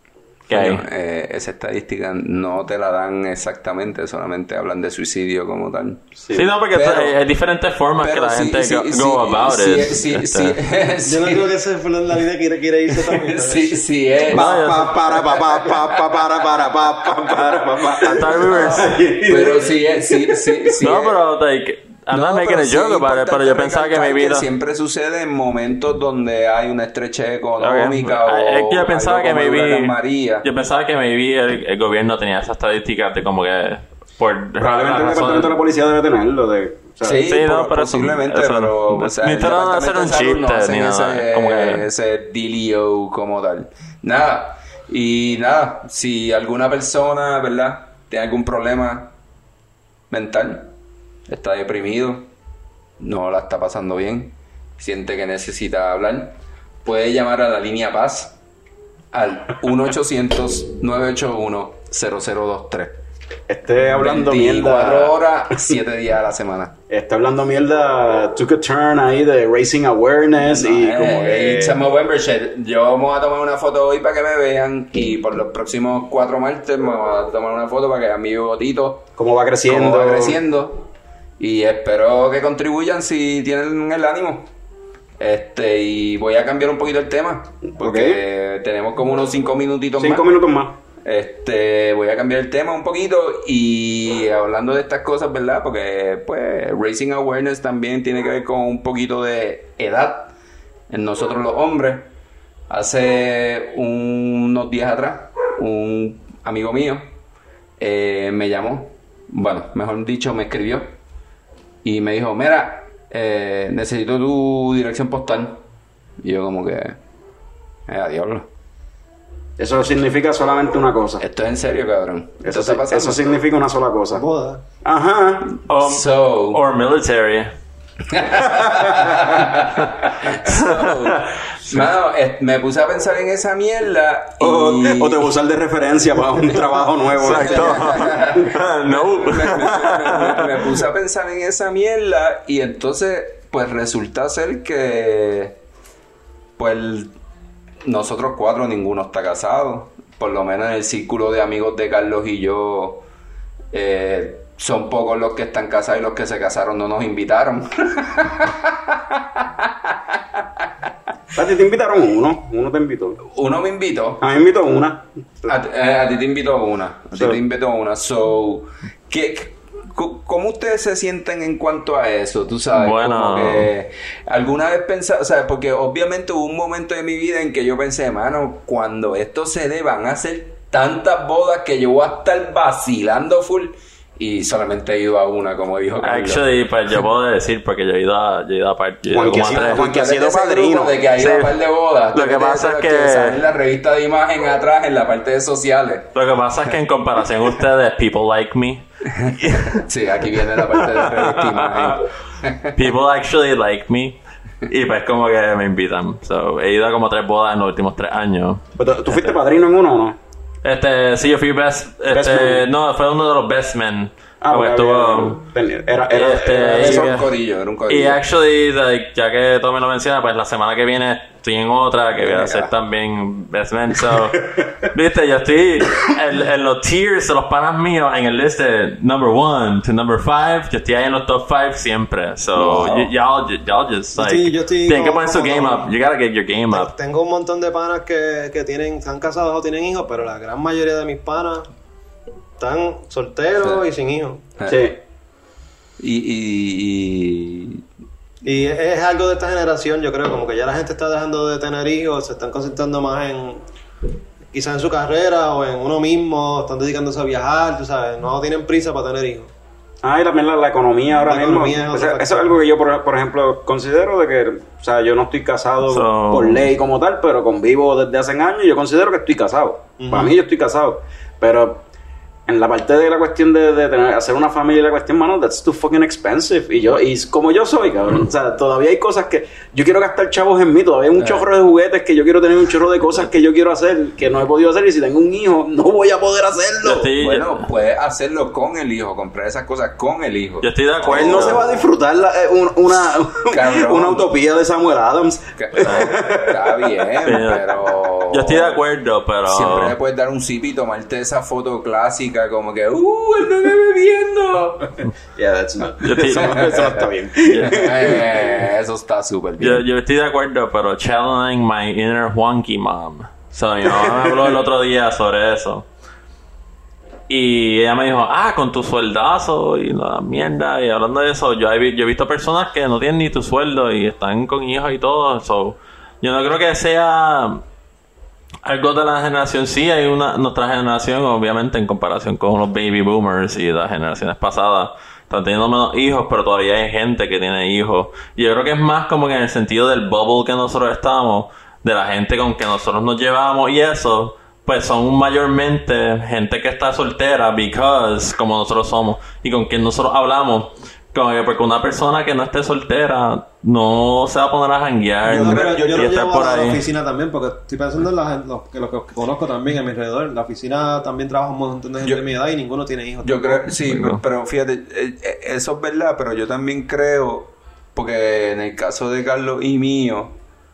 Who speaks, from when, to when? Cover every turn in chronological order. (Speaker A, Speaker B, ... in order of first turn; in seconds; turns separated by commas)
Speaker A: 0.5-0.8, Speaker B: 0.5-6.1, Speaker A: 6.3-10.6, Speaker B: 6.7-7.2, Speaker B: 8.0-11.5, Speaker C: 11.0-13.8, Speaker B: 13.3-16.1, Speaker A: 14.3-15.0, Speaker D: 14.3-20.7, Speaker B: 17.4-21.2, Speaker A: 18.0-19.0, Speaker A: 20.8-24.4, Speaker B: 22.1-30.4, Speaker A: 27.6-35.5, Speaker D: 34.6-37.2, Speaker B: 37.0-49.1, Speaker A: 37.3-41.8, Speaker B: 50.1-50.7, Speaker B: 51.3-52.3, Speaker B: 53.0-58.4, Speaker B: 59.1-63.0, Speaker D: 63.5-65.8, Speaker B: 63.8-66.7, Speaker D: 66.9-71.8, Speaker B: 70.4-79.1, Speaker D: 79.2-80.4, Speaker B: 79.7-84.5, Speaker B: 85.2-90.4, Speaker D: 87.6-88.2, Speaker D: 90.0-90.8, Speaker B: 90.9-100.3, Speaker B: 100.9-102.1, Speaker B: 102.7-107.1, Speaker B: 107.8-110.9, Speaker B: 111.8-115.6, Speaker B: 116.2-117.0, Speaker B: 117.9-118.5, Speaker D: 119.6-121.2, Speaker B: 121.2-123.2, Speaker D: 122.4-124.2, Speaker C: 124.1-124.6, Speaker D: 124.8-125.5, Speaker A: 125.7-127.5, Speaker B: 125.7-126.6, Speaker B: 128.1-135.3, Speaker A: 130.5-131.3, Speaker D: 134.4-138.4, Speaker A: 137.2-140.6, Speaker B: 137.2-145.6, Speaker B: 146.6-147.1, Speaker B: 147.8-153.0, Speaker B: 153.7-160.7, Speaker D: 161.3-163.2, Speaker B: 163.2-164.2, Speaker D: 164.2-165.1, Speaker B: 165.4-186.5, Speaker A: 172.7-173.7, Speaker A: 186.0-189.8, Speaker D: 189.1-191.0, Speaker B: 189.2-196.1, Speaker A: 191.2-191.6, Speaker A: 192.1-193.4, Speaker A: 196.1-198.8, Speaker B: 199.2-202.8, Speaker A: 200.6-202.0, Speaker A: 202.7-209.3, Speaker D: 208.8-210.2, Speaker A: 210.6-215.4, Speaker D: 212.1-212.6, Speaker D: 214.4-217.2, Speaker A: 216.1-217.3, Speaker B: 216.7-218.2, Speaker A: 217.9-236.9, Speaker B: 222.2-222.7, Speaker B: 232.6-233.1, Speaker C: 234.2-235.9, Speaker C: 236.7-241.7, Speaker C: 242.6-244.4, Speaker D: 244.7-245.0, Speaker B: 246.0-247.8, Speaker C: 248.4-253.6, Speaker C: 254.5-259.5, Speaker D: 260.0-271.9, Speaker C: 261.2-262.6, Speaker A: 265.9-266.6, Speaker C: 270.0-270.3, Speaker D: 272.5-287.1, Speaker B: 281.1-281.5, Speaker A: 286.8-287.7, Speaker B: 287.2-291.6, Speaker A: 290.6-291.8, Speaker D: 291.0-297.4, Speaker B: 293.4-294.3, Speaker B: 295.6-298.8, Speaker A: 295.8-296.2, Speaker A: 297.2-297.7, Speaker A: 298.3-300.0, Speaker B: 299.4-305.0, Speaker D: 305.3-308.2, Speaker A: 306.0-306.7, Speaker B: 306.3-306.9, Speaker A: 307.4-307.9, Speaker B: 307.6-309.9, Speaker A: 309.6-315.9, Speaker A: 317.3-327.6, Speaker A: 328.6-356.8, Speaker C: 355.3-363.7, Speaker D: 355.4-355.8, Speaker B: 363.2-370.3, Speaker A: 363.9-364.2